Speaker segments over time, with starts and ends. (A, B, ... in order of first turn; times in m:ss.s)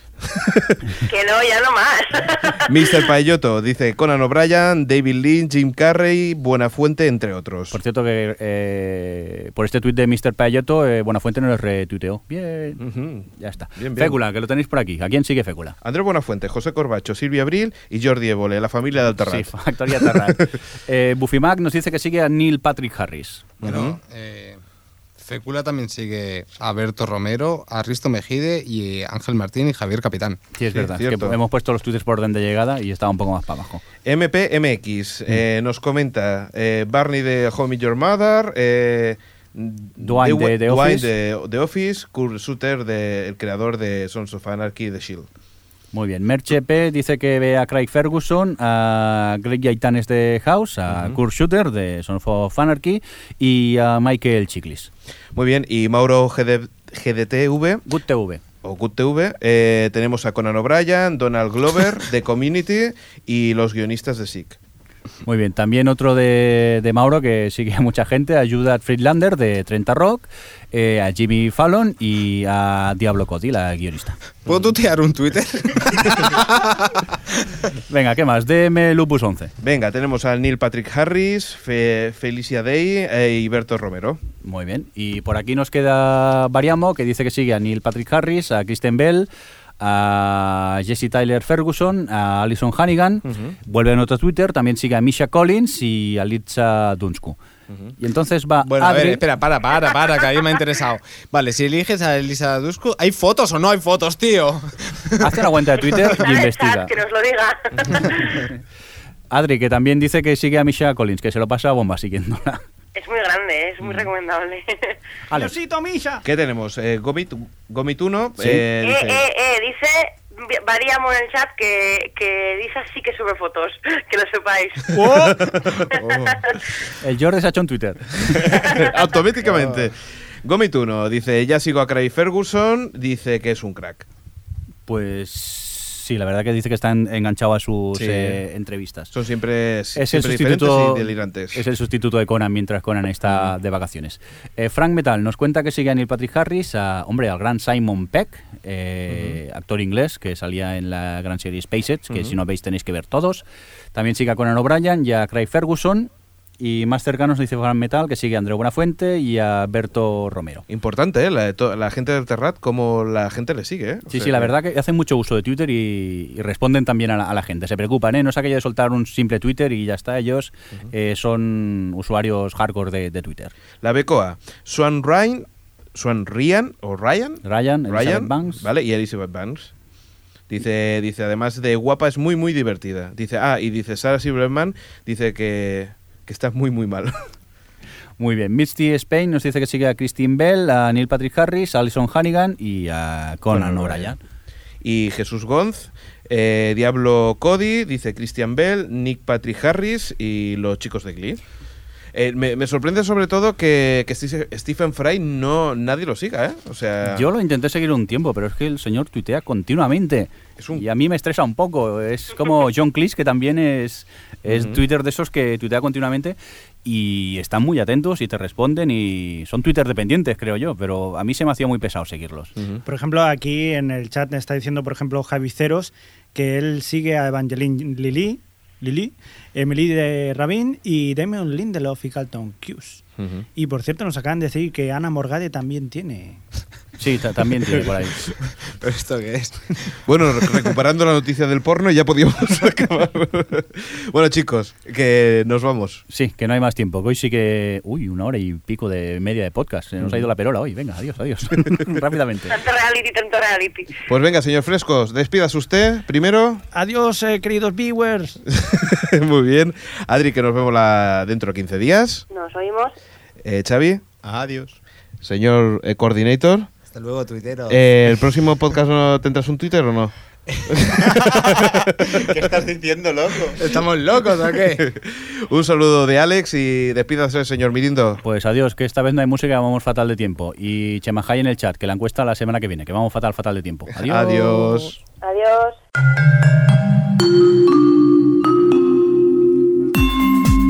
0:00.3-0:00.8 A
0:01.0-0:03.0 B
0:02.6-0:07.8 A
0:07.7-0:12.8 C
0:12.8-0:14.2 A
0:13.4-0:15.8 C
0:15.8-0:20.6 A
0:19.2-0:23.5 C
0:23.6-0:24.0 A
0:23.6-0:24.6 D
0:25.2-0:30.4 D
0:30.6-0:33.8 C
0:30.7-0:31.4 A
0:34.0-0:45.3 A
0:40.0-0:41.1 C
0:45.9-0:54.9 C
0:50.9-0:51.2 A
0:55.4-0:57.8 A
0:57.9-0:58.4 C
0:58.6-1:04.6 A
1:05.2-1:14.2 C
1:14.5-1:17.2 D
1:17.9-1:19.5 C
1:19.6-1:24.2 A
1:24.4-1:29.3 C
1:29.8-1:37.4 C
1:33.3-1:33.6 A
1:38.0-1:39.2 C
1:38.6-1:45.4 D
1:45.2-1:46.9 C
1:46.2-1:48.5 B
1:49.3-1:52.6 C
1:53.0-1:55.0 B
1:55.3-1:56.2 E
1:56.2-1:59.2 A
1:58.8-2:05.2 B
2:04.9-2:05.5 E
2:05.8-2:06.4 D
2:07.0-2:08.5 C
2:08.4-2:14.1 A
2:08.5-2:08.9 B
2:14.9-2:19.1 C
2:18.0-2:18.4 A
2:19.1-2:21.6 A
2:20.0-2:40.6 C
2:23.3-2:23.5 A
2:29.1-2:29.4 A
2:40.7-2:44.5 A
2:44.1-2:53.5 C
2:53.8-2:59.7 A
2:57.4-2:58.6 C
3:00.5-3:07.1 A
3:08.2-3:14.2 C
3:13.5-3:14.1 A
3:14.8-3:21.4 A
3:22.1-3:27.3 A
3:27.1-3:42.5 C
3:30.6-3:30.8 A
3:34.5-3:34.8 A
3:42.6-3:42.8 A
3:42.9-3:53.0 E
3:53.2-3:53.5 A
3:53.6-3:56.4 E
3:57.0-3:58.2 C
3:58.4-4:00.5 D
4:00.1-4:06.0 A
4:06.1-4:12.5 C
4:10.0-4:10.3 A
4:12.5-4:13.9 B
4:14.1-4:16.6 A
4:16.7-4:18.4 E
4:18.5-4:22.2 A
4:22.3-4:23.0 B
4:23.4-4:24.0 A
4:24.2-4:24.8 F
4:25.2-4:26.7 A
4:26.9-4:27.8 D
4:27.7-4:30.1 A
4:30.7-4:31.8 A
4:31.1-4:33.7 F
4:33.6-4:34.8 D
4:34.8-4:38.2 A
4:38.2-4:45.0 C
4:43.9-4:44.9 A
4:45.2-4:45.8 B